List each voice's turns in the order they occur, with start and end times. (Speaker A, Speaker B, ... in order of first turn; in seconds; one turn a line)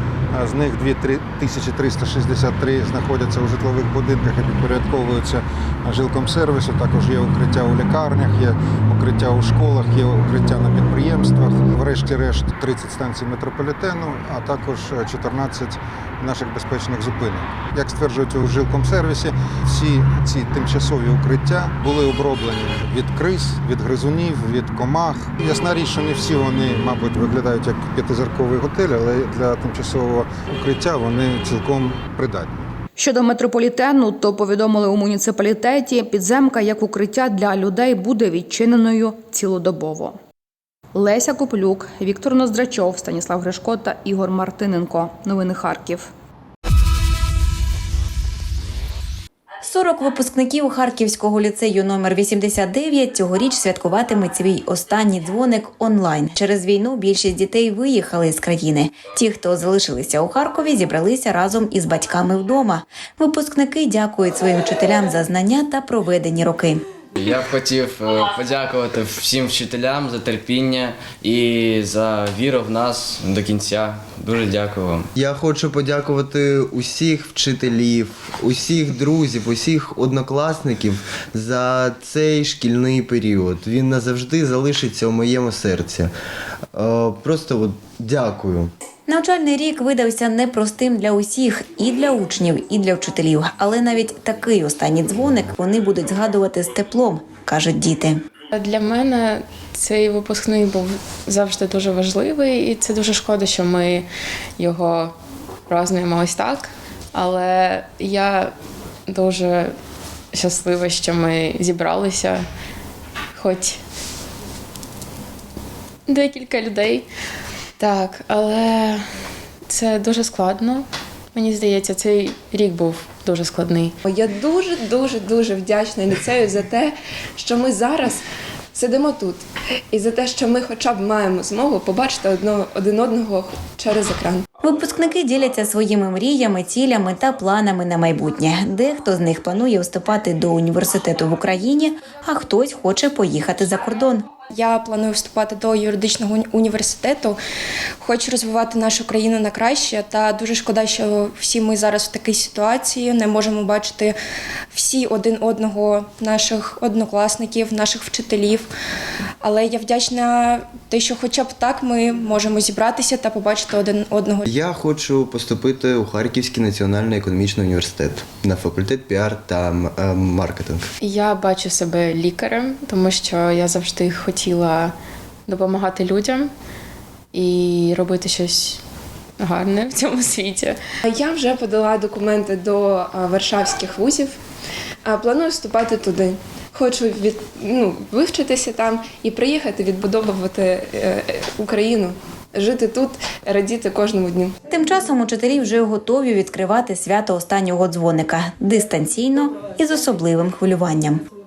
Speaker A: 0.3-32.5
Speaker B: 33.0-40.2
Speaker B: 40.9-46.1
Speaker C: 49.6-66.8
Speaker D: 67.2-75.1
Speaker E: 75.2-86.1
Speaker E: 86.7-88.7
Speaker C: 89.1-98.2
Speaker F: 98.5-105.2
Speaker F: 105.7-108.5
Speaker F: 109.1-109.7
Speaker F: 110.3-112.5
Speaker F: 113.3-113.8
Speaker F: 116.1-117.1
Speaker F: 117.8-119.0
Speaker F: 119.7-124.0
Speaker G: 124.0-128.2
Speaker G: 128.7-134.4
Speaker C: 134.6-144.3
Speaker H: 144.5-147.4
Speaker H: 148.0-154.1
Speaker H: 154.7-158.7
Speaker H: 159.4-164.4
Speaker E: 164.4-170.9
Speaker F: 171.0-174.9
Speaker F: 175.5-176.5
Speaker F: 177.3-178.8
Speaker F: 179.4-180.8
Speaker G: 181.0-184.4
Speaker G: 185.0-194.6
Speaker C: 194.7-201.2